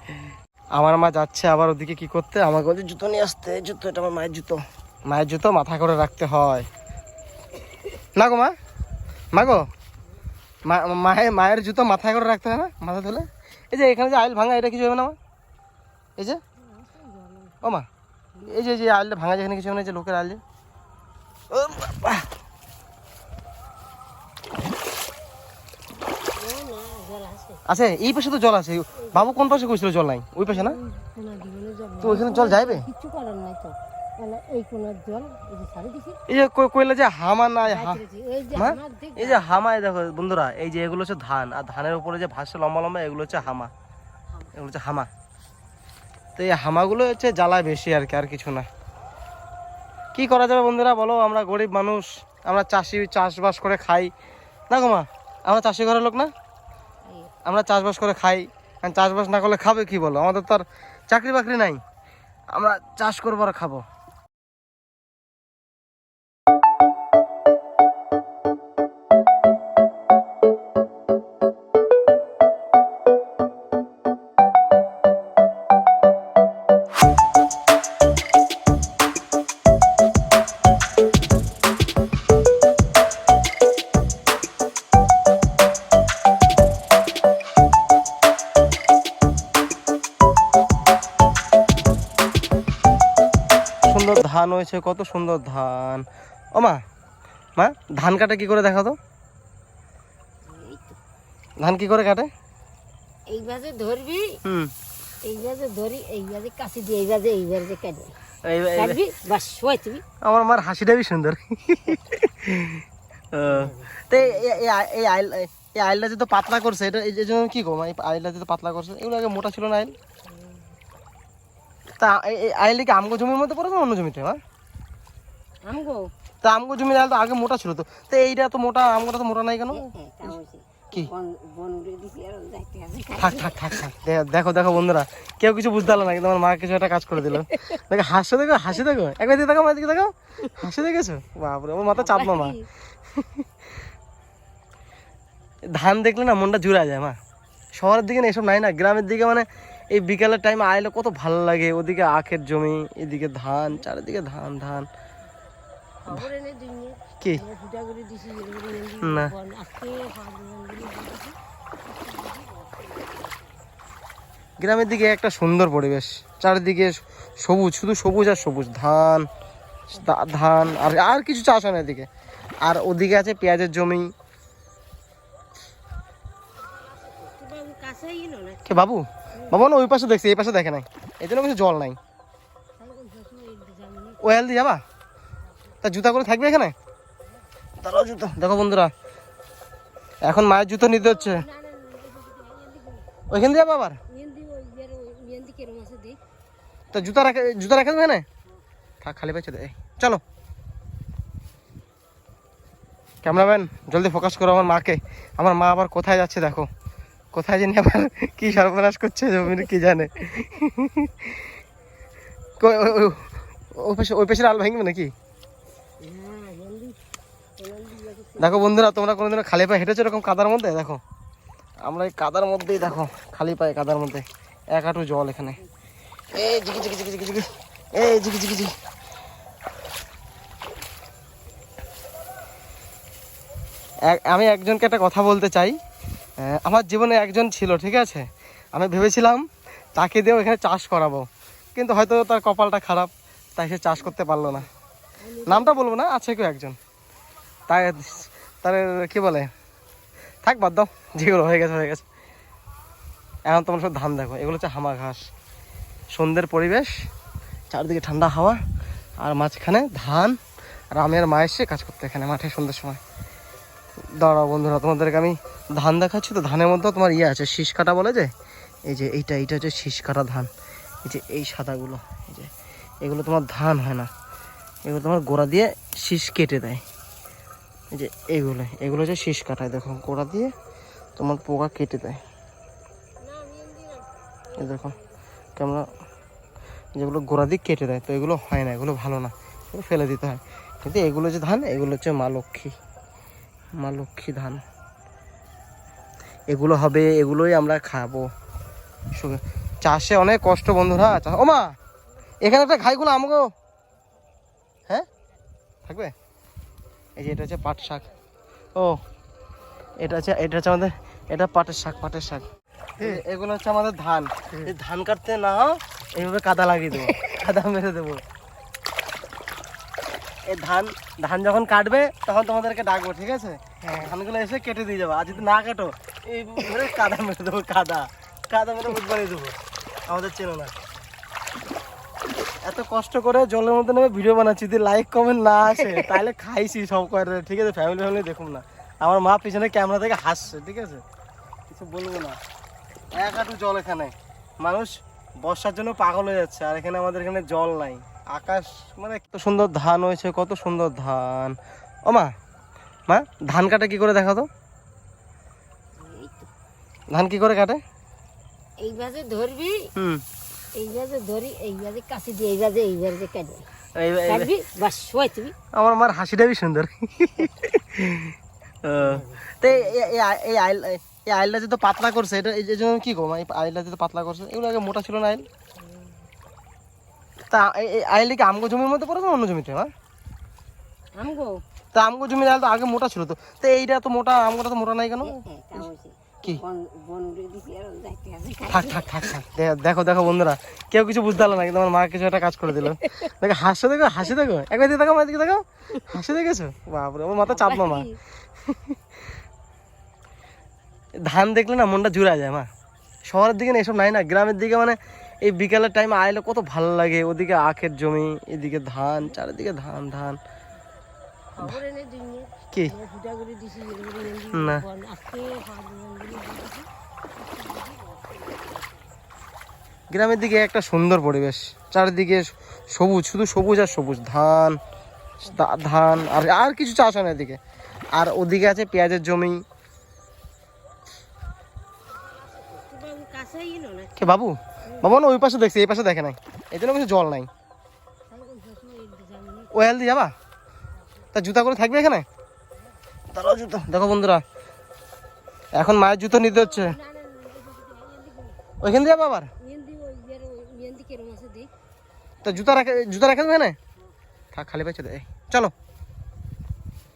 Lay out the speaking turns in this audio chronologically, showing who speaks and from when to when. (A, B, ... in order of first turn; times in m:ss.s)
0:00.7-0:06.7 A
0:08.1-0:08.5 A
0:09.3-0:09.7 A
0:10.6-0:15.2 A
0:16.6-0:17.6 B
0:17.6-0:17.9 A
0:18.4-0:20.4 A
0:21.5-0:22.3 A
0:26.3-0:27.6 B
0:27.6-0:30.8 A
0:28.9-0:29.5 B
0:30.5-0:36.2 B
0:32.0-0:32.9 A
0:36.3-0:38.0 A
0:37.6-0:39.5 B
0:38.5-0:43.7 A
0:44.5-0:45.1 A
0:46.4-0:48.7 A
0:50.1-0:54.1 A
0:54.7-0:56.3 A
0:57.0-0:57.3 B
0:57.4-1:01.8 A
1:02.5-1:03.8 A
1:33.8-1:36.8 A
1:37.6-1:39.0 A
1:40.4-1:41.0 B
1:41.6-1:42.3 A
1:43.3-1:44.4 B
1:44.4-1:44.7 A
1:45.2-1:48.2 B
1:48.4-1:49.0 A
1:48.7-1:50.0 B
1:50.2-1:59.9 A
1:53.4-1:54.4 B
2:00.2-2:00.8 B
2:02.0-2:04.4 A
2:05.6-2:06.1 B
2:06.4-2:09.9 A
2:09.7-2:13.6 B
2:13.2-2:22.6 A
2:21.9-2:22.7 B
2:23.1-2:23.5 A
2:25.7-2:27.2 A
2:27.8-2:34.9 A
2:36.0-2:43.6 B
2:39.0-2:39.3 A
2:44.6-2:49.3 A
2:49.9-2:52.1 A
2:52.6-2:54.1 A
2:56.6-2:59.7 B
2:58.7-3:02.0 A
3:02.8-3:04.4 B
3:04.2-3:04.8 A
3:05.8-3:06.7 A
3:07.8-3:08.9 A
3:10.2-3:11.4 A
3:10.8-3:13.1 B
3:13.3-3:14.0 A
3:14.1-3:16.2 B
3:16.9-3:18.2 A
3:19.0-3:20.2 A
3:23.2-3:26.7 A
3:27.3-3:31.4 A
3:29.6-3:30.4 B
3:32.6-3:35.1 A
3:36.0-3:37.0 B
3:37.6-3:38.8 B
3:38.4-3:41.0 A
3:41.8-3:45.6 A
3:46.3-3:48.7 A
3:54.1-3:55.8 A
3:56.4-4:04.7 A
4:05.2-4:05.9 B
4:05.4-4:06.8 A
4:07.7-4:09.5 A
4:10.4-4:12.0 A
4:13.5-4:15.2 A
4:16.1-4:16.9 A
4:17.7-4:18.6 A
4:19.2-4:20.4 A
4:20.9-4:23.0 A
4:24.2-4:28.3 A
4:28.9-4:30.5 A
4:31.0-4:32.5 A
4:33.0-4:34.1 A
4:34.8-4:36.8 A
4:37.9-4:40.5 A
4:41.2-4:42.2 A
4:43.2-4:45.2 B
4:44.6-4:44.9 A
4:45.6-4:45.9 A
4:47.0-4:52.7 A
4:53.8-4:54.6 A
4:56.5-4:58.3 A
4:59.1-5:01.7 A
5:02.4-5:03.5 A
5:05.9-5:06.1 A
5:07.2-5:08.1 A
5:10.0-5:12.5 A
5:13.0-5:18.2 A
5:20.4-5:30.7 A
5:23.8-5:24.1 B
5:32.6-5:41.0 A
5:35.8-5:36.1 B
5:41.7-5:42.4 A
5:43.1-5:52.3 A
5:53.1-5:54.5 A
5:56.0-5:56.5 B
5:57.1-5:57.8 A
5:58.8-5:59.9 B
5:59.9-6:00.2 A
6:00.7-6:03.7 B
6:03.9-6:04.5 A
6:04.2-6:05.6 B
6:05.7-6:15.4 A
6:09.0-6:10.0 B
6:15.8-6:16.3 B
6:17.5-6:19.9 A
6:21.1-6:21.6 B
6:21.9-6:25.8 A
6:25.2-6:29.1 B
6:28.7-6:38.1 A
6:32.8-6:33.1 B
6:37.4-6:38.2 B
6:38.7-6:39.0 A
6:41.2-6:42.7 A
6:43.3-6:50.4 A
6:51.5-6:59.1 B
6:54.5-6:54.8 A
7:00.1-7:04.8 A
7:05.4-7:07.6 A
7:08.1-7:09.6 A
7:12.1-7:15.2 B
7:14.2-7:17.5 A
7:18.3-7:19.9 B
7:19.7-7:20.3 A
7:21.3-7:22.2 A
7:23.3-7:24.4 A
7:25.7-7:27.0 A
7:26.3-7:28.6 B
7:28.8-7:29.5 A
7:29.6-7:31.7 B
7:32.4-7:33.8 A
7:34.5-7:35.7 A